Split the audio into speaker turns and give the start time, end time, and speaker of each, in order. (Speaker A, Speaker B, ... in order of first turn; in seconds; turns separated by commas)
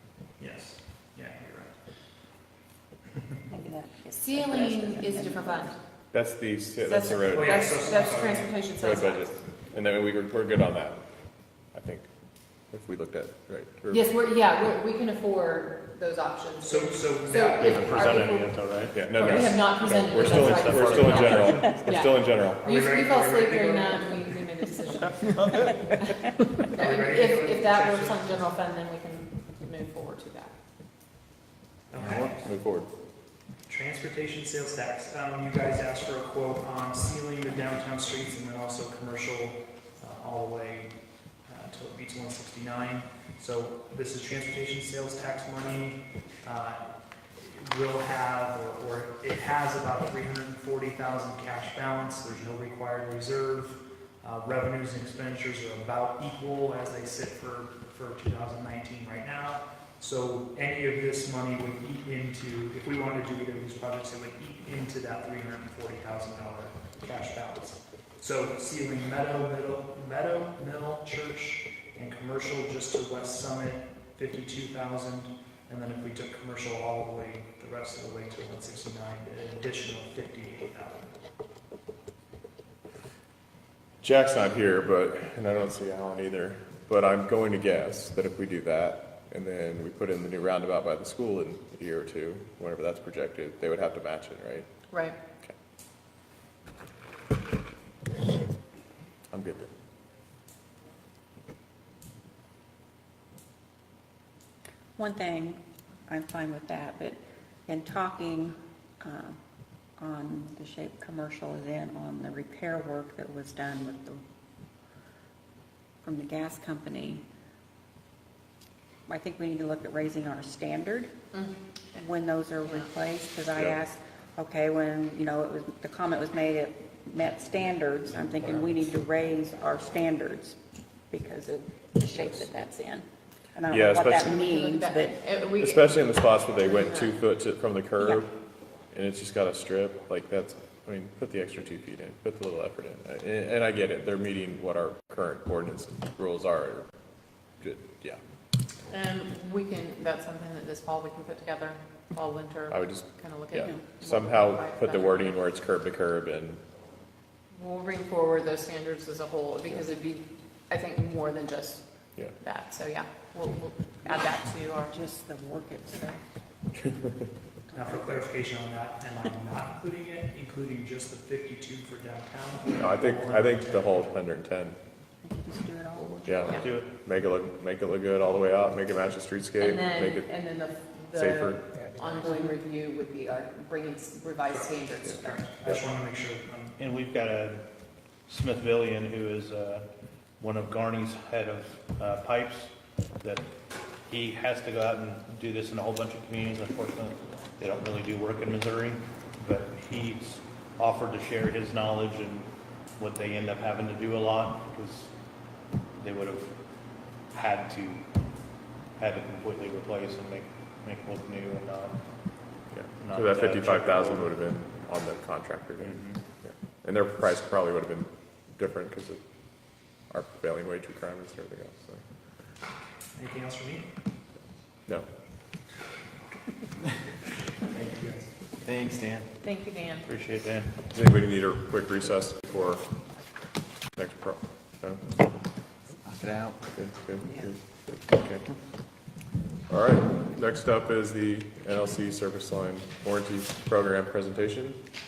Speaker A: 0.4-1.8, Speaker B: 3.5-5.8, Speaker C: 4.2-5.8, Speaker D: 6.1-7.7, Speaker C: 6.8-9.4, Speaker A: 7.1-8.6, Speaker D: 8.8-11.0, Speaker D: 11.7-12.1, Speaker D: 12.7-14.1, Speaker C: 13.9-30.5, Speaker A: 16.6-18.4, Speaker E: 17.6-21.7, Speaker D: 18.9-22.6, Speaker A: 22.5-24.3, Speaker A: 26.7-28.3, Speaker A: 31.9-32.5, Speaker D: 32.2-32.9, Speaker A: 33.7-40.9, Speaker A: 41.5-46.9, Speaker A: 47.4-81.2, Speaker D: 84.0-94.7, Speaker C: 94.9-95.2, Speaker D: 99.3-99.7, Speaker B: 105.0-109.4, Speaker B: 110.0-114.2, Speaker B: 116.0-117.2, Speaker B: 119.1-121.1, Speaker B: 121.9-130.6, Speaker B: 131.1-135.2, Speaker D: 132.2-132.4, Speaker D: 133.7-134.3, Speaker C: 134.2-137.2, Speaker D: 135.6-138.3, Speaker D: 138.9-146.9, Speaker D: 147.6-148.2, Speaker C: 148.9-155.4, Speaker D: 152.7-156.6, Speaker C: 157.5-165.0, Speaker B: 164.9-166.2, Speaker B: 167.7-168.3, Speaker A: 167.7-174.0, Speaker D: 172.8-174.8, Speaker B: 175.2-176.7, Speaker D: 176.3-180.3, Speaker E: 176.5-176.9, Speaker C: 179.6-185.5, Speaker D: 181.2-181.6, Speaker A: 184.5-186.8, Speaker E: 186.8-187.7, Speaker E: 188.3-189.9, Speaker E: 190.4-193.5, Speaker E: 194.1-205.1, Speaker E: 206.0-206.5, Speaker E: 207.3-208.0, Speaker E: 209.0-212.0, Speaker D: 212.7-219.2, Speaker E: 213.0-214.3, Speaker E: 215.8-216.2, Speaker D: 220.1-222.0, Speaker A: 223.2-223.9, Speaker A: 227.7-228.3, Speaker E: 228.7-229.3, Speaker C: 229.4-230.1, Speaker E: 230.1-230.8, Speaker D: 230.9-232.8, Speaker D: 234.0-235.1, Speaker D: 236.7-238.4, Speaker D: 239.7-244.8